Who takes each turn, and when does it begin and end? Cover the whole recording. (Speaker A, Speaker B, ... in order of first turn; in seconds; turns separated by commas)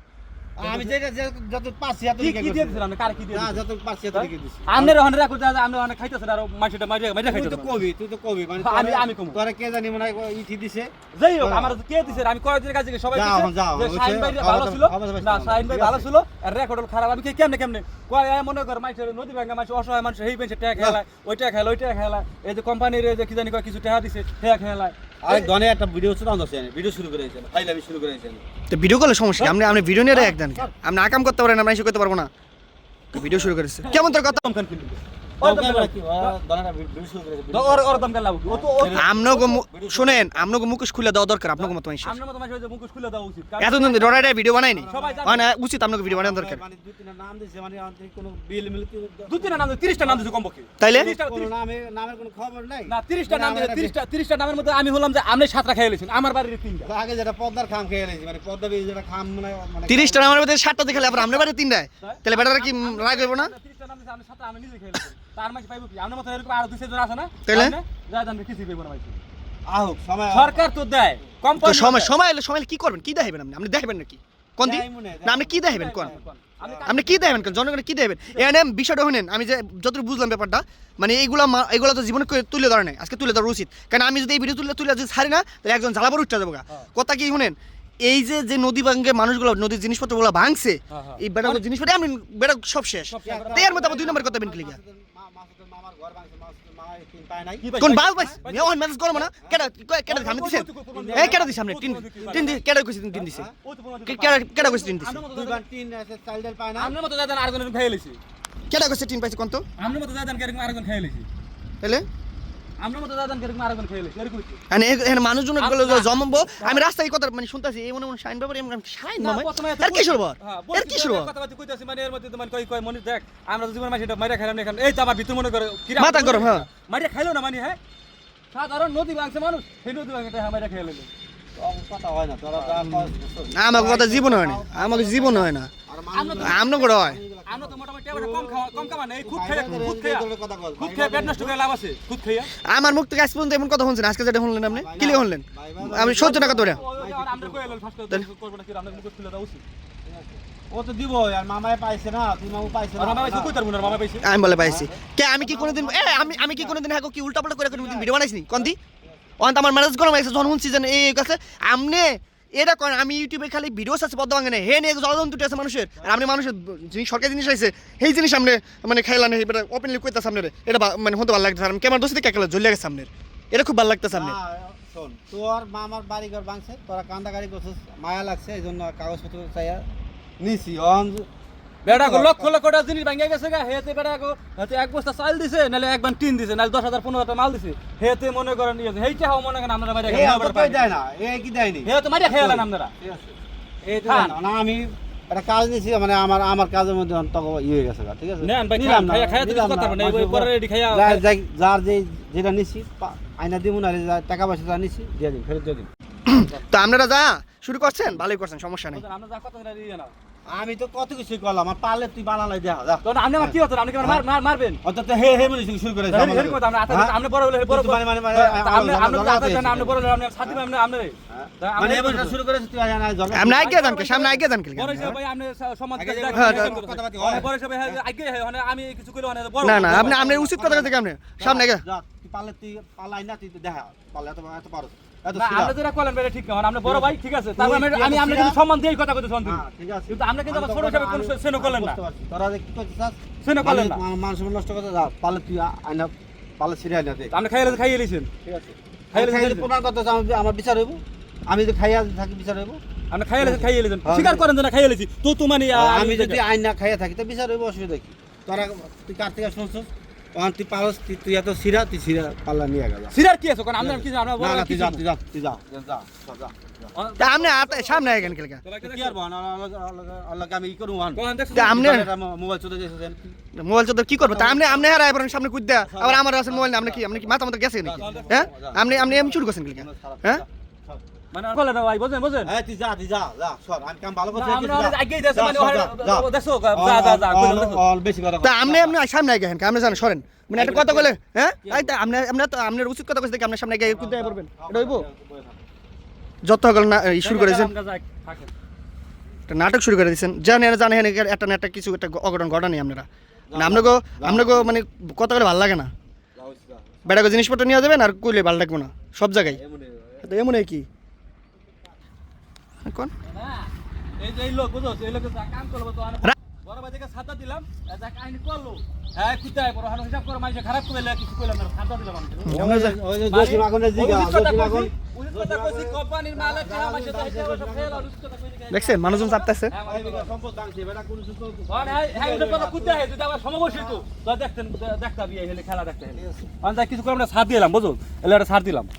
Speaker A: 0.6-5.0, Speaker B: 0.6-0.9, Speaker B: 2.2-7.8, Speaker A: 7.2-12.2, Speaker B: 8.6-9.4, Speaker B: 11.1-25.5, Speaker A: 13.1-16.1, Speaker A: 25.2-28.4, Speaker C: 28.7-32.3, Speaker B: 29.4-30.7, Speaker C: 33.1-34.4, Speaker B: 33.8-36.4, Speaker A: 35.4-40.5, Speaker B: 37.5-39.1, Speaker C: 38.9-42.2, Speaker B: 41.6-44.2, Speaker C: 43.6-46.6, Speaker A: 44.7-45.4, Speaker B: 44.9-45.5, Speaker A: 46.0-50.3, Speaker B: 49.3-51.5, Speaker C: 50.8-51.1, Speaker A: 51.0-53.9, Speaker B: 52.9-56.9, Speaker A: 56.8-60.3, Speaker C: 59.9-63.5, Speaker B: 60.9-61.5, Speaker B: 62.0-69.2, Speaker C: 67.4-67.8, Speaker A: 69.7-70.6, Speaker B: 70.3-72.1, Speaker C: 71.5-76.1, Speaker A: 74.6-77.5, Speaker B: 75.6-77.2, Speaker C: 76.8-94.8, Speaker B: 90.9-91.6, Speaker B: 93.1-94.2, Speaker A: 93.2-97.7, Speaker B: 97.6-98.8, Speaker C: 97.8-103.5, Speaker A: 99.1-99.6, Speaker B: 100.1-102.6, Speaker A: 100.9-101.5, Speaker A: 103.2-103.5, Speaker B: 103.2-105.6, Speaker C: 104.0-105.2, Speaker A: 105.3-106.9, Speaker B: 106.8-108.2, Speaker C: 108.7-109.6, Speaker B: 109.8-111.3, Speaker C: 111.8-112.0, Speaker B: 112.8-114.6, Speaker C: 114.7-121.3, Speaker B: 115.6-116.8, Speaker B: 119.2-127.8, Speaker C: 126.0-126.7, Speaker B: 128.5-131.1, Speaker A: 131.6-141.5, Speaker C: 132.8-135.7, Speaker B: 136.1-136.9, Speaker C: 136.4-137.2, Speaker B: 137.4-140.2, Speaker B: 140.8-142.5, Speaker C: 142.6-146.8, Speaker A: 144.7-147.8, Speaker B: 146.1-149.6, Speaker A: 150.0-154.0, Speaker B: 153.0-154.3, Speaker C: 154.2-158.8, Speaker A: 154.6-156.8, Speaker A: 157.7-159.3, Speaker C: 159.4-174.4, Speaker A: 174.1-179.8, Speaker A: 180.4-181.3, Speaker B: 181.8-190.9, Speaker A: 181.8-182.6, Speaker A: 190.1-205.9, Speaker B: 191.8-192.9, Speaker B: 194.1-194.4, Speaker B: 198.4-201.2, Speaker C: 206.3-209.0, Speaker B: 206.3-206.6, Speaker B: 208.9-210.1, Speaker A: 210.5-214.2, Speaker B: 213.0-214.8, Speaker A: 214.8-217.2, Speaker B: 216.1-222.4, Speaker A: 217.7-220.6, Speaker A: 221.3-223.7, Speaker C: 223.3-225.2, Speaker B: 223.6-230.2, Speaker A: 225.9-228.0, Speaker C: 226.3-226.8, Speaker C: 229.6-231.8, Speaker A: 229.6-235.7, Speaker B: 235.3-242.0, Speaker A: 236.8-238.6, Speaker A: 239.4-247.8, Speaker B: 243.4-244.0, Speaker B: 247.3-248.3, Speaker A: 248.4-252.8, Speaker B: 249.1-249.7, Speaker B: 253.1-256.4, Speaker A: 253.4-254.4, Speaker A: 255.7-263.1, Speaker B: 263.1-265.0, Speaker A: 263.8-266.9, Speaker B: 266.9-269.2, Speaker C: 267.2-268.6, Speaker A: 268.8-273.4, Speaker B: 271.1-271.8, Speaker C: 271.5-272.1, Speaker C: 273.5-280.4, Speaker A: 274.2-274.9, Speaker A: 275.8-281.0, Speaker B: 278.0-278.5, Speaker B: 281.3-282.5, Speaker A: 282.4-288.9, Speaker B: 284.3-287.8, Speaker C: 288.4-295.1, Speaker A: 290.6-291.1, Speaker A: 291.6-291.9, Speaker A: 293.9-295.6, Speaker C: 296.4-297.7, Speaker B: 297.2-298.5, Speaker C: 299.5-305.9, Speaker A: 303.5-304.8, Speaker A: 306.4-307.3, Speaker C: 307.1-309.6, Speaker A: 309.4-310.3, Speaker C: 310.2-310.9, Speaker C: 312.8-313.1, Speaker B: 313.2-322.5, Speaker C: 322.4-323.0, Speaker A: 322.5-328.1, Speaker B: 323.2-330.3, Speaker C: 328.7-329.7, Speaker A: 329.8-333.0, Speaker B: 331.7-338.9, Speaker A: 333.7-334.0, Speaker A: 336.1-336.5